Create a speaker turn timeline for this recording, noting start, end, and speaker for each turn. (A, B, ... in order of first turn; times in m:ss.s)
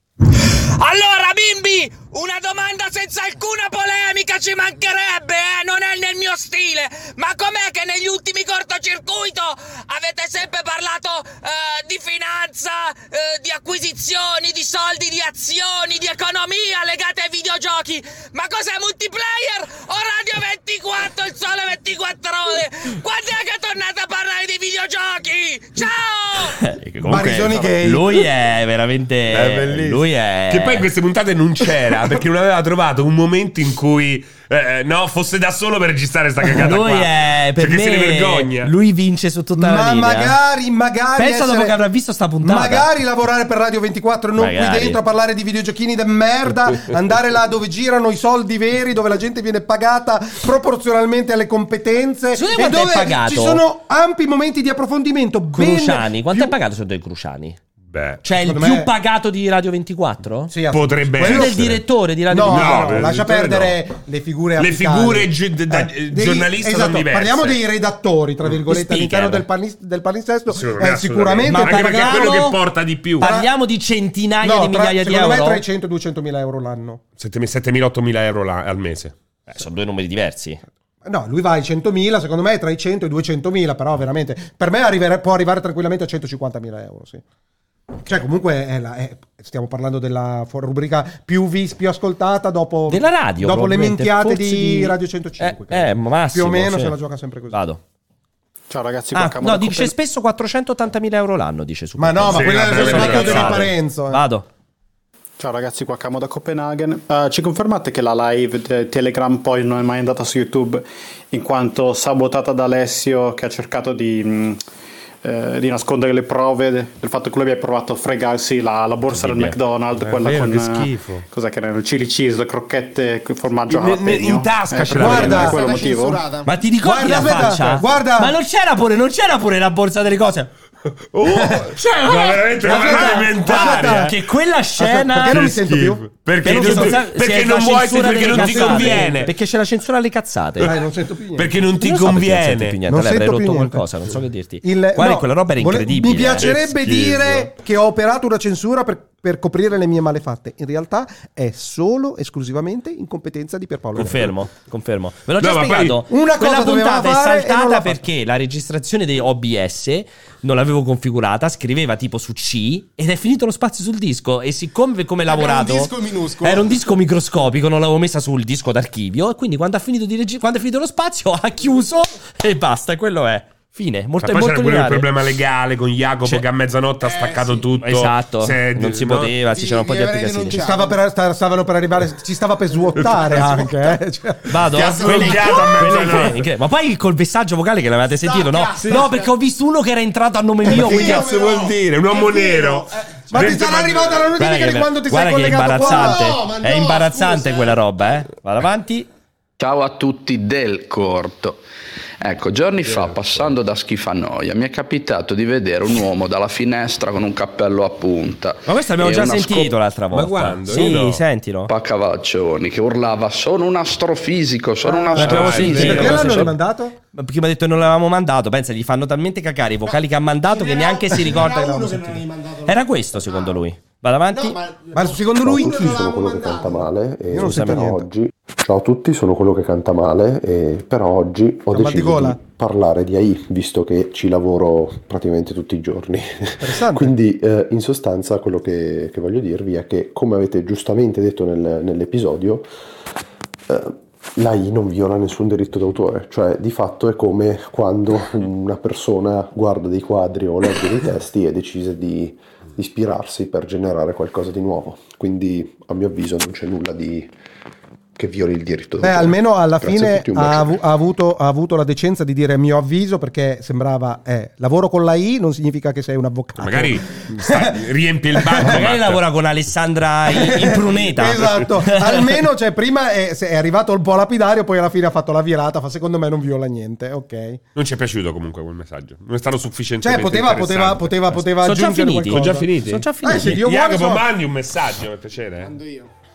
0:00.3-0:26.6 A
0:26.6-0:30.9 B
0:27.0-0:28.2 C
0:29.3-0:38.7 D
0:36.5-0:40.4 B
0:39.6-0:41.8 C
0:41.2-0:42.9 B
0:42.4-0:56.6 C
0:44.4-0:45.0 B
0:52.3-0:53.6 B
0:55.5-0:57.6 B
0:57.9-0:58.2 D
0:58.2-1:00.5 B
0:58.4-0:58.9 C
1:00.5-1:01.6 C
1:00.7-1:01.8 D
1:01.2-1:03.1 B
1:02.3-1:12.4 C
1:02.4-1:03.8 D
1:04.6-1:07.6 D
1:08.6-1:09.4 B
1:10.5-1:13.3 D
1:11.5-1:12.6 B
1:13.2-1:15.6 B
1:13.2-1:13.5 C
1:14.4-1:17.0 C
1:17.2-1:19.1 D
1:19.5-1:20.6 B
1:21.0-1:27.2 C
1:28.0-1:37.6 C
1:32.9-1:37.0 B
1:37.5-1:37.8 B
1:38.7-1:39.9 E
1:39.1-1:44.4 B
1:42.0-1:44.2 C
1:42.3-1:43.7 D
1:45.4-1:54.6 E
1:55.2-2:06.2 E
1:59.1-2:01.2 D
2:03.7-2:05.6 D
2:04.9-2:05.6 C
2:05.2-2:06.5 F
2:06.4-2:10.5 B
2:06.8-2:08.4 C
2:11.1-2:14.1 D
2:11.3-2:11.7 C
2:12.0-2:15.5 B
2:12.6-2:14.2 C
2:14.8-2:17.0 C
2:15.2-2:19.3 D
2:16.4-2:20.7 B
2:18.2-2:19.3 C
2:20.6-2:21.5 C
2:21.4-2:22.8 D
2:21.8-2:27.1 B
2:22.9-2:23.9 C
2:24.6-2:34.3 C
2:26.4-2:27.2 D
2:34.0-2:45.9 B
2:35.4-2:36.0 D
2:36.1-2:38.0 C
2:45.2-2:46.7 F
2:46.4-2:55.1 B
2:54.2-2:59.3 D
2:57.0-2:57.6 F
2:57.8-3:00.6 B
2:59.5-3:01.0 F
3:00.5-3:04.8 C
3:03.0-3:03.7 D
3:04.5-3:11.3 B
3:04.7-3:06.4 D
3:04.8-3:06.1 F
3:08.1-3:09.3 F
3:10.6-3:13.7 F
3:10.7-3:14.3 D
3:13.3-3:16.3 C
3:14.4-3:19.1 B
3:15.6-3:17.8 F
3:19.6-3:21.6 G
3:22.2-3:29.8 G
3:22.8-3:23.4 D
3:28.6-3:31.7 B
3:30.1-3:31.2 D
3:31.7-3:35.8 G
3:34.8-3:37.0 C
3:35.1-3:36.6 B
3:35.2-3:36.5 D
3:37.1-3:44.6 B
3:39.8-3:43.6 F
3:44.3-3:46.9 F
3:44.9-3:46.1 C
3:45.4-4:02.7 H
3:47.3-3:48.1 C
3:47.3-3:47.9 B
3:51.7-3:52.4 C
3:56.6-3:57.1 C
4:03.7-4:17.3 H
4:18.2-4:20.7 H
4:19.0-4:28.8 C
4:26.6-4:29.2 D
4:28.6-4:32.4 B
4:30.3-4:37.6 C
4:37.7-4:41.4 D
4:40.0-4:42.7 C
4:41.6-4:43.6 B
4:42.3-4:45.7 D
4:43.2-4:44.3 C
4:45.6-4:46.1 F